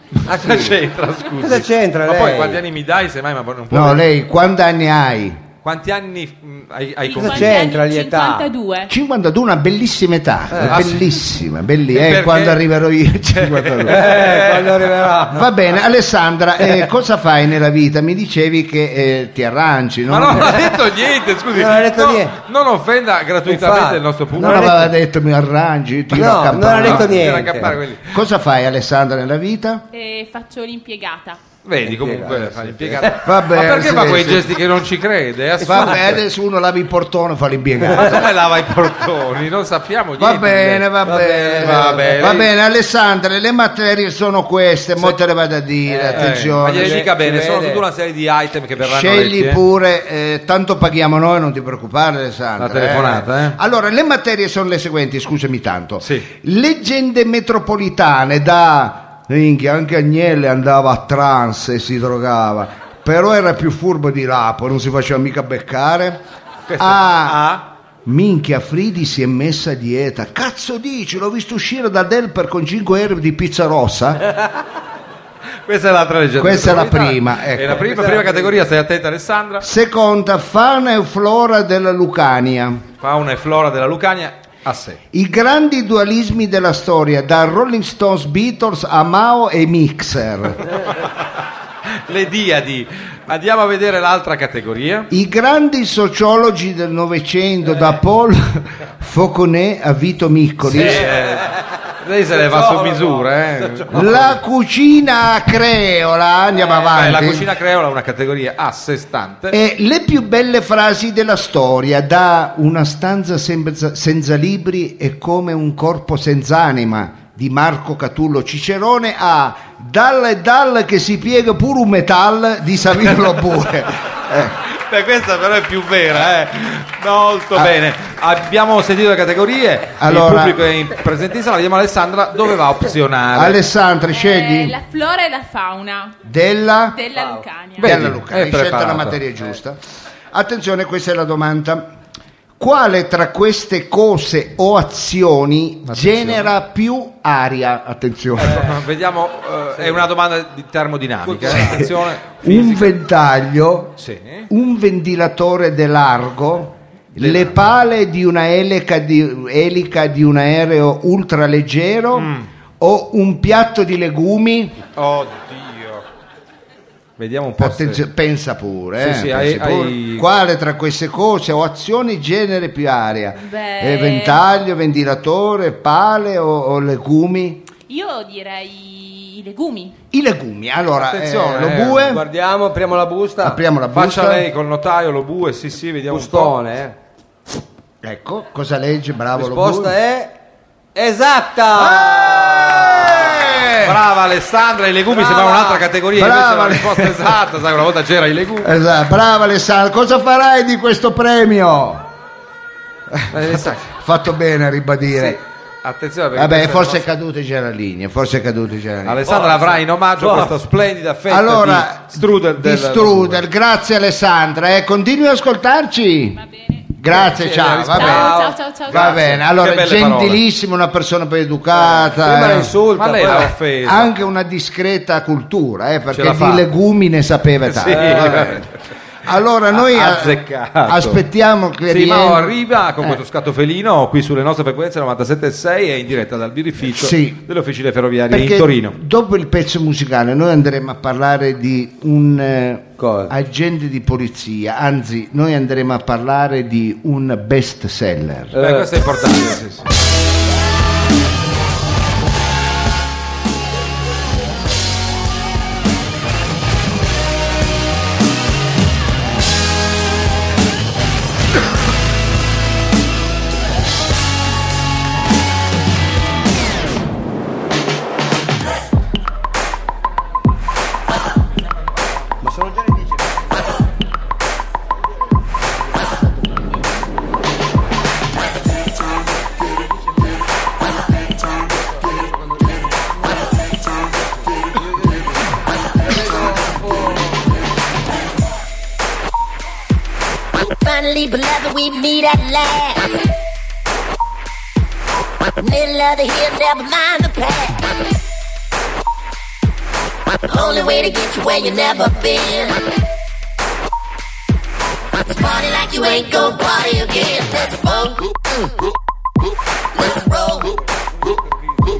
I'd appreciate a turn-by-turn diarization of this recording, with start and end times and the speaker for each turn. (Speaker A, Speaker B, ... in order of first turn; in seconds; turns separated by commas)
Speaker A: 0.3-0.8, Speaker B: 0.3-4.0, Speaker A: 1.4-2.6, Speaker C: 3.7-5.4, Speaker B: 5.6-7.7, Speaker D: 7.0-8.9, Speaker A: 7.2-8.5, Speaker C: 8.9-14.1, Speaker A: 10.5-10.8, Speaker B: 10.6-11.1, Speaker B: 11.9-12.6, Speaker B: 13.3-14.8, Speaker A: 13.9-15.4, Speaker C: 15.3-20.5, Speaker B: 20.1-24.9, Speaker A: 21.5-22.3, Speaker A: 23.5-24.0, Speaker C: 24.3-29.8, Speaker A: 26.1-27.8, Speaker B: 26.8-28.1, Speaker D: 29.9-31.4, Speaker B: 31.6-36.2, Speaker A: 31.9-33.2, Speaker C: 33.2-34.5, Speaker C: 35.6-38.2, Speaker A: 35.6-35.9, Speaker B: 37.9-40.9, Speaker C: 40.2-47.0, Speaker A: 41.0-42.2, Speaker B: 41.5-42.5, Speaker A: 45.9-47.8, Speaker B: 46.1-49.6, Speaker C: 48.8-66.2, Speaker B: 52.6-53.6, Speaker B: 56.0-56.3, Speaker B: 66.7-67.6, Speaker C: 66.8-67.5, Speaker C: 68.0-74.2, Speaker B: 75.7-79.6, Speaker C: 76.4-77.8, Speaker A: 77.8-78.6, Speaker C: 79.6-82.8, Speaker B: 83.0-85.0, Speaker C: 85.1-90.8, Speaker B: 92.1-95.1, Speaker C: 95.1-101.0, Speaker B: 100.6-104.4, Speaker A: 100.8-101.5, Speaker A: 102.3-104.1, Speaker C: 103.9-107.4, Speaker B: 106.5-109.5, Speaker C: 109.5-124.5, Speaker B: 124.7-133.6, Speaker C: 130.0-130.7, Speaker C: 133.3-134.7, Speaker D: 134.1-136.2, Speaker C: 136.2-137.0, Speaker D: 136.9-137.9, Speaker A: 137.2-137.4, Speaker B: 137.8-139.2, Speaker C: 137.8-139.8, Speaker C: 140.3-141.9, Speaker C: 142.6-148.7, Speaker B: 145.8-146.5, Speaker B: 148.4-152.9, Speaker A: 149.8-150.0, Speaker A: 151.2-151.9, Speaker C: 151.5-151.9, Speaker C: 152.4-153.9, Speaker B: 154.0-154.5, Speaker C: 154.5-164.8, Speaker B: 157.2-157.6, Speaker B: 162.1-162.4, Speaker B: 164.9-166.0, Speaker B: 167.2-168.0, Speaker C: 167.6-177.6, Speaker B: 169.0-170.3, Speaker D: 173.3-174.4, Speaker D: 177.9-179.9, Speaker C: 180.1-182.2, Speaker B: 180.9-182.2, Speaker A: 182.0-183.6, Speaker C: 183.4-184.4, Speaker B: 183.9-186.6, Speaker A: 186.1-186.9, Speaker C: 188.0-189.9, Speaker A: 189.3-190.3, Speaker A: 190.9-193.2, Speaker C: 191.8-194.0, Speaker B: 193.8-198.7, Speaker A: 195.1-195.8, Speaker C: 196.2-197.3, Speaker C: 198.6-202.0, Speaker C: 203.1-205.4, Speaker B: 203.3-203.9, Speaker B: 205.1-207.1, Speaker C: 206.3-209.3, Speaker B: 209.0-213.4, Speaker A: 209.2-210.5, Speaker C: 211.3-216.4, Speaker D: 216.4-216.9, Speaker C: 216.9-218.3, Speaker B: 217.1-220.4, Speaker D: 217.9-219.2, Speaker A: 218.0-218.6, Speaker C: 218.9-222.8, Speaker A: 221.7-223.5, Speaker B: 222.9-224.1, Speaker C: 223.8-228.7, Speaker B: 226.1-226.7, Speaker B: 227.6-228.7, Speaker A: 227.8-228.5, Speaker C: 229.2-233.2, Speaker B: 229.7-231.2, Speaker B: 231.9-239.0, Speaker C: 236.8-237.4, Speaker C: 238.3-248.5, Speaker A: 243.0-243.3, Speaker A: 248.5-248.9, Speaker B: 248.6-249.8, Speaker E: 290.6-293.2, Speaker E: 295.6-297.9, Speaker E: 300.4-302.9, Speaker E: 305.2-308.5, Speaker E: 309.9-310.7